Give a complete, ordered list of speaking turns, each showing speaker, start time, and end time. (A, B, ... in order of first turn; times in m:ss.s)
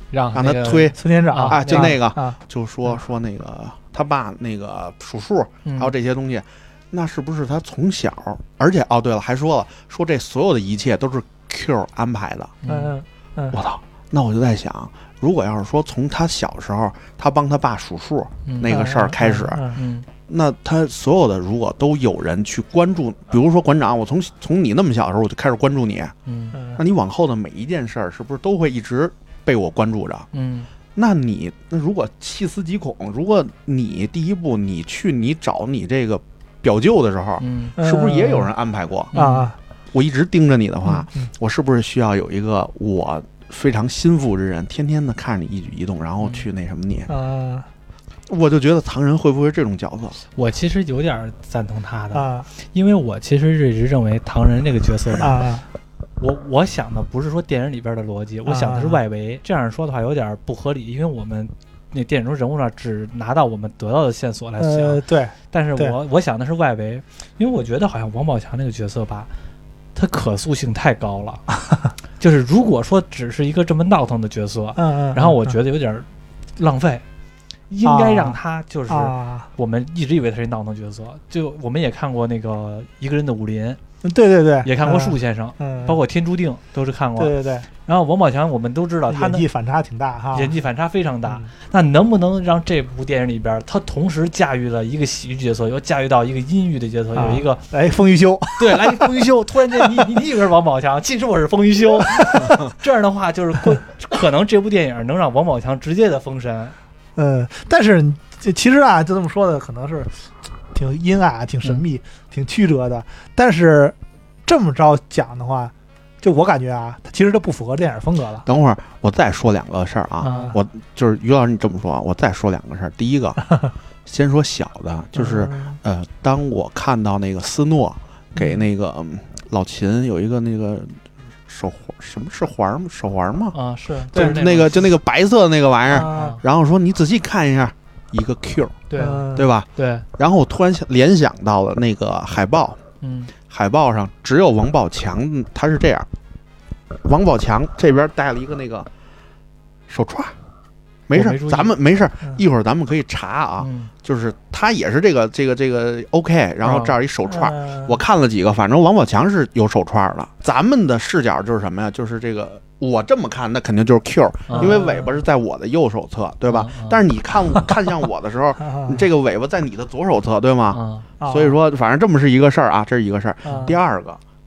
0:00.1-0:02.0 A
0:00.3-0:12.5 B
0:01.0-0:02.4 C
0:05.6-0:05.9 A
0:12.6-0:12.9 A
0:12.7-0:13.6 C
0:13.5-0:19.7 B
0:18.5-0:18.9 A
0:18.7-0:19.8 C
0:19.7-0:20.1 A
0:20.3-0:26.1 B
0:26.3-0:26.6 A
0:26.5-0:26.8 C
0:26.8-0:30.3 B
0:30.3-0:30.7 A
0:31.0-0:39.1 B
0:37.4-0:37.8 A
0:37.8-0:38.5 C
0:39.1-0:39.5 A
0:39.1-0:39.6 C
0:39.9-0:47.1 B
0:40.9-0:41.3 C
0:47.1-0:47.7 C
0:48.3-0:50.2 B
0:50.4-0:55.4 A
0:52.1-0:52.5 C
0:55.2-0:55.6 C
0:56.2-1:09.3 A
0:58.5-0:59.0 C
1:04.6-1:06.0 C
1:10.0-1:11.5 A
1:12.2-1:17.0 A
1:14.8-1:15.5 C
1:17.7-1:23.8 A
1:17.8-1:18.4 C
1:18.9-1:19.5 C
1:24.0-1:26.0 C
1:24.6-1:27.3 A
1:27.2-1:27.7 C
1:27.8-1:29.4 A
1:29.1-1:30.5 C
1:30.3-1:37.6 A
1:37.2-1:40.2 C
1:38.6-1:46.8 A
1:42.0-1:42.6 C
1:47.2-1:50.2 C
1:50.7-1:54.0 C
1:54.5-1:58.4 C
1:58.4-2:03.5 B
2:00.2-2:00.6 A
2:00.3-2:00.5 C
2:04.1-2:13.6 B
2:05.2-2:05.8 C
2:13.5-2:14.8 A
2:14.1-2:14.4 C
2:14.1-2:18.8 B
2:15.9-2:16.4 C
2:15.9-2:16.4 A
2:18.9-2:20.1 A
2:19.0-2:19.5 C
2:19.3-2:22.8 B
2:23.0-2:23.3 A
2:23.5-2:26.1 B
2:27.0-2:28.9 B
2:29.9-2:30.4 B
2:31.1-2:54.2 B
2:31.1-2:31.8 A
2:33.6-2:33.9 A
2:36.6-2:36.9 A
2:37.3-2:38.0 C
2:44.5-2:44.8 A
2:44.6-2:45.2 C
2:46.5-2:47.0 A
2:48.6-2:49.0 C
2:50.7-2:51.1 A
2:51.2-2:51.6 C
2:53.5-2:53.8 C